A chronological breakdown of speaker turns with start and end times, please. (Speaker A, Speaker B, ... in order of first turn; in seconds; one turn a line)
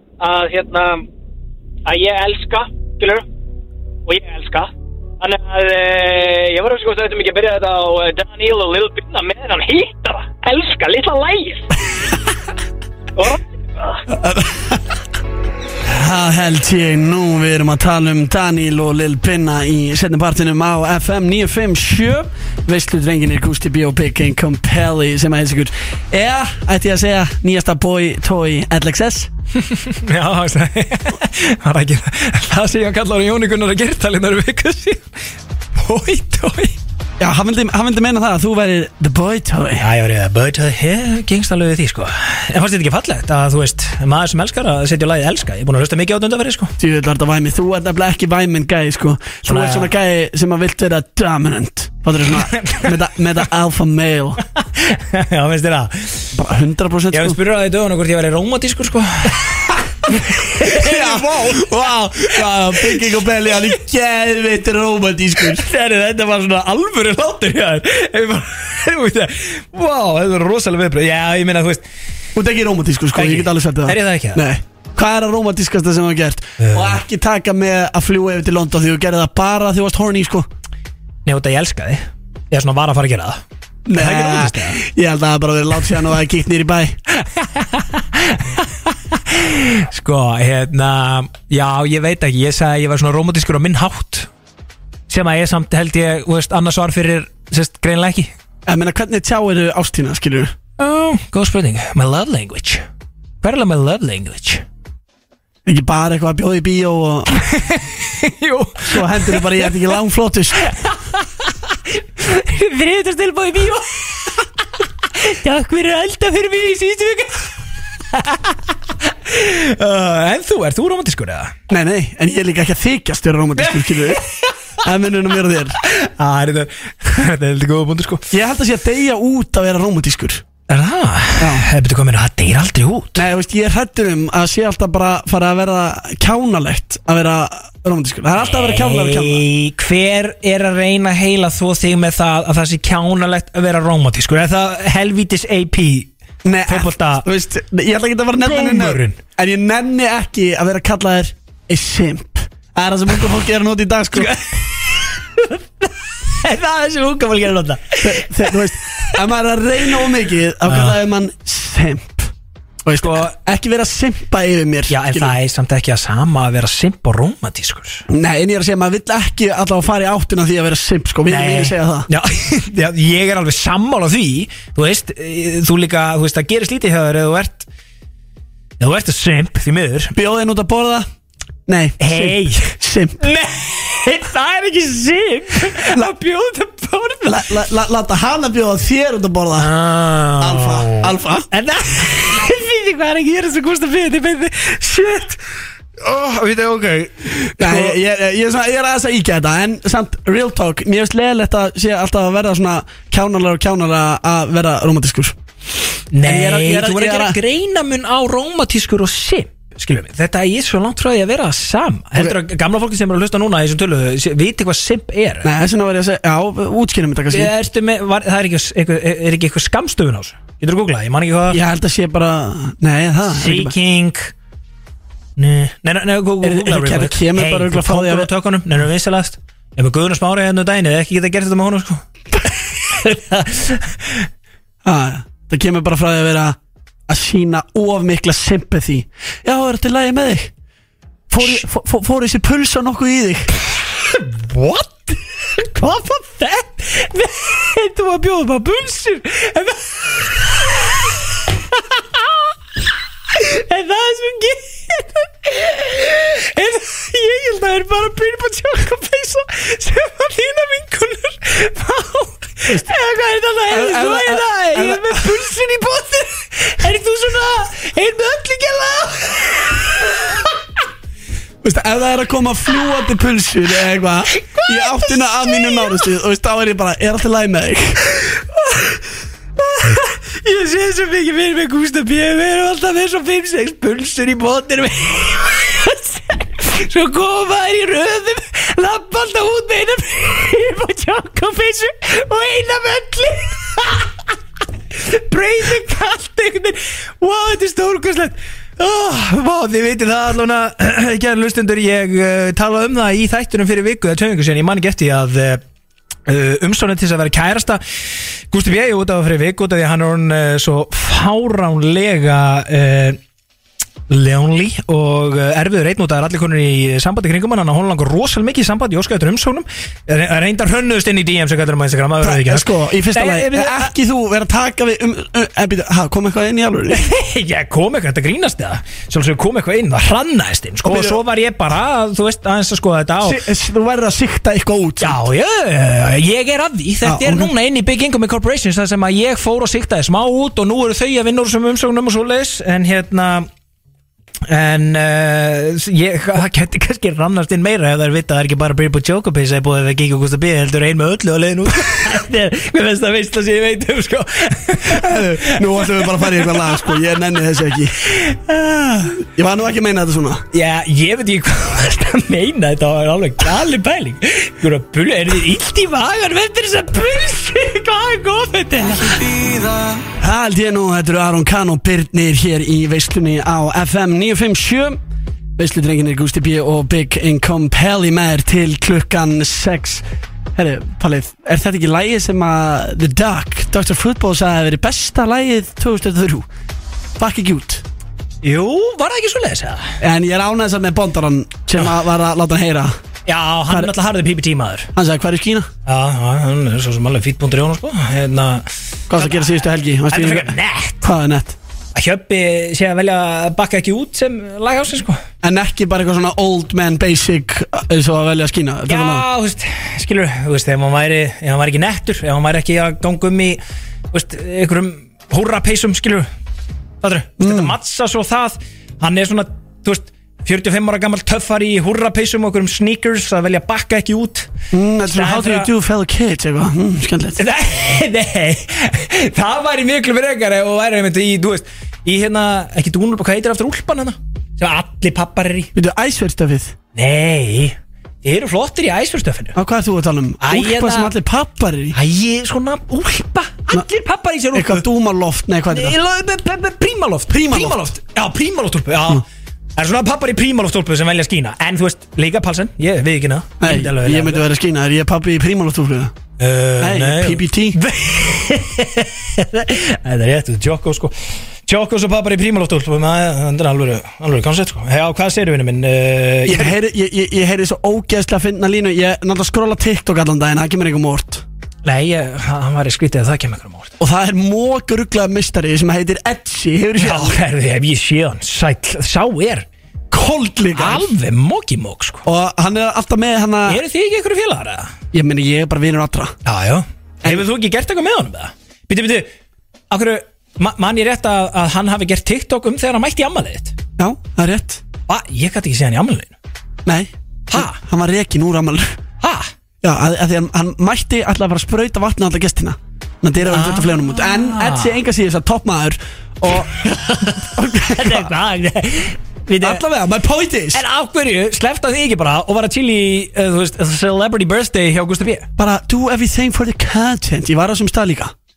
Speaker A: 0.2-1.1
Speaker A: 1.9-3.2
Speaker A: 4.1-11.8
Speaker A: 13.2-14.0
Speaker B: 14.1-14.8
Speaker B: 15.8-29.3
Speaker C: 29.6-35.0
Speaker C: 35.8-36.8
Speaker B: 37.2-39.9
Speaker C: 39.8-46.7
Speaker B: 46.8-54.4
Speaker C: 49.5-49.9
Speaker C: 52.3-53.0
Speaker C: 54.5-56.4
Speaker B: 56.4-57.4
Speaker C: 57.1-63.6
Speaker B: 60.6-65.7
Speaker C: 65.4-71.8
Speaker B: 72.3-80.5
Speaker C: 73.1-74.5
Speaker C: 76.6-77.0
Speaker C: 81.3-83.4
Speaker B: 83.9-87.0
Speaker C: 84.0-84.8
Speaker C: 87.2-94.3
Speaker C: 95.1-98.3
Speaker B: 98.7-100.5
Speaker C: 100.8-102.8
Speaker C: 103.4-104.6
Speaker B: 105.7-107.3
Speaker C: 107.4-109.8
Speaker B: 108.8-110.7
Speaker C: 110.7-114.4
Speaker C: 115.1-117.5
Speaker C: 118.1-121.6
Speaker B: 121.7-124.2
Speaker C: 123.6-124.5
Speaker B: 124.8-125.8
Speaker C: 125.8-128.3
Speaker B: 128.3-130.4
Speaker C: 130.7-133.2
Speaker B: 131.4-131.7
Speaker B: 133.2-139.4
Speaker C: 138.4-146.1
Speaker B: 146.4-154.4
Speaker C: 146.7-147.3
Speaker C: 148.4-149.2
Speaker C: 154.1-159.2
Speaker B: 158.0-162.3
Speaker C: 160.7-161.0
Speaker B: 162.8-165.4
Speaker C: 163.0-163.3
Speaker C: 164.9-168.1
Speaker B: 168.1-172.1
Speaker C: 171.3-177.7
Speaker C: 178.8-180.2
Speaker B: 180.2-181.1
Speaker B: 181.7-183.2
Speaker C: 182.0-182.6
Speaker C: 183.2-187.4
Speaker B: 187.2-189.7
Speaker C: 189.6-195.4
Speaker B: 190.4-191.5
Speaker C: 196.0-197.9
Speaker B: 197.6-205.4
Speaker C: 206.1-215.5
Speaker B: 206.2-207.4
Speaker B: 215.4-217.5
Speaker C: 217.3-221.6
Speaker B: 221.5-223.7
Speaker C: 223.2-224.3
Speaker C: 225.4-234.3
Speaker B: 226.4-228.3
Speaker B: 234.8-236.6
Speaker B: 237.1-240.5
Speaker B: 241.3-243.5
Speaker C: 244.1-251.1
Speaker C: 251.7-252.4
Speaker C: 253.3-270.5
Speaker B: 263.7-265.4
Speaker B: 271.6-278.0
Speaker C: 274.3-276.1
Speaker C: 278.6-279.0
Speaker C: 279.6-294.1
Speaker C: 294.9-305.6
Speaker C: 306.3-307.8
Speaker C: 308.5-313.2
Speaker C: 314.1-323.9
Speaker B: 322.2-327.0
Speaker C: 326.9-333.4
Speaker B: 330.9-331.2
Speaker B: 333.2-335.2
Speaker C: 335.0-343.5
Speaker B: 337.0-337.5
Speaker C: 344.5-357.2
Speaker B: 354.9-358.0
Speaker C: 357.7-359.2
Speaker B: 359.3-360.4
Speaker C: 360.5-369.3
Speaker B: 370.2-375.0
Speaker B: 375.6-380.0
Speaker B: 380.6-386.5
Speaker B: 387.2-387.8
Speaker C: 388.4-390.0
Speaker B: 390.0-392.9
Speaker C: 393.3-394.9
Speaker B: 394.9-395.7
Speaker C: 395.9-401.0
Speaker B: 399.1-401.6
Speaker C: 401.9-405.2
Speaker B: 405.4-409.3
Speaker C: 408.9-413.6
Speaker C: 414.1-416.3
Speaker C: 417.0-424.5
Speaker B: 417.4-417.8
Speaker B: 424.7-427.4
Speaker C: 425.1-425.7
Speaker C: 427.4-435.7
Speaker B: 435.8-436.8
Speaker C: 436.9-439.6
Speaker B: 439.6-442.0
Speaker C: 440.4-441.1
Speaker C: 441.9-444.9
Speaker B: 444.5-446.0
Speaker C: 445.7-449.2
Speaker B: 447.3-447.9
Speaker C: 449.8-454.5
Speaker B: 453.6-456.1
Speaker C: 456.4-461.1
Speaker B: 456.8-457.8
Speaker C: 461.7-466.8
Speaker B: 466.5-471.4
Speaker C: 471.9-473.9
Speaker B: 474.0-477.4
Speaker C: 477.0-479.7
Speaker B: 480.1-481.1
Speaker C: 480.8-482.2
Speaker B: 482.2-483.8
Speaker C: 483.7-484.9
Speaker B: 485.1-486.4
Speaker C: 486.4-489.3
Speaker C: 489.9-493.8
Speaker B: 494.0-494.8
Speaker C: 495.1-496.3
Speaker B: 496.9-499.0
Speaker C: 497.5-497.8
Speaker C: 499.2-499.5
Speaker B: 499.8-506.7
Speaker C: 503.4-504.9
Speaker C: 506.7-509.8
Speaker B: 507.4-508.3
Speaker B: 509.6-510.8
Speaker C: 510.7-515.5
Speaker B: 515.6-518.3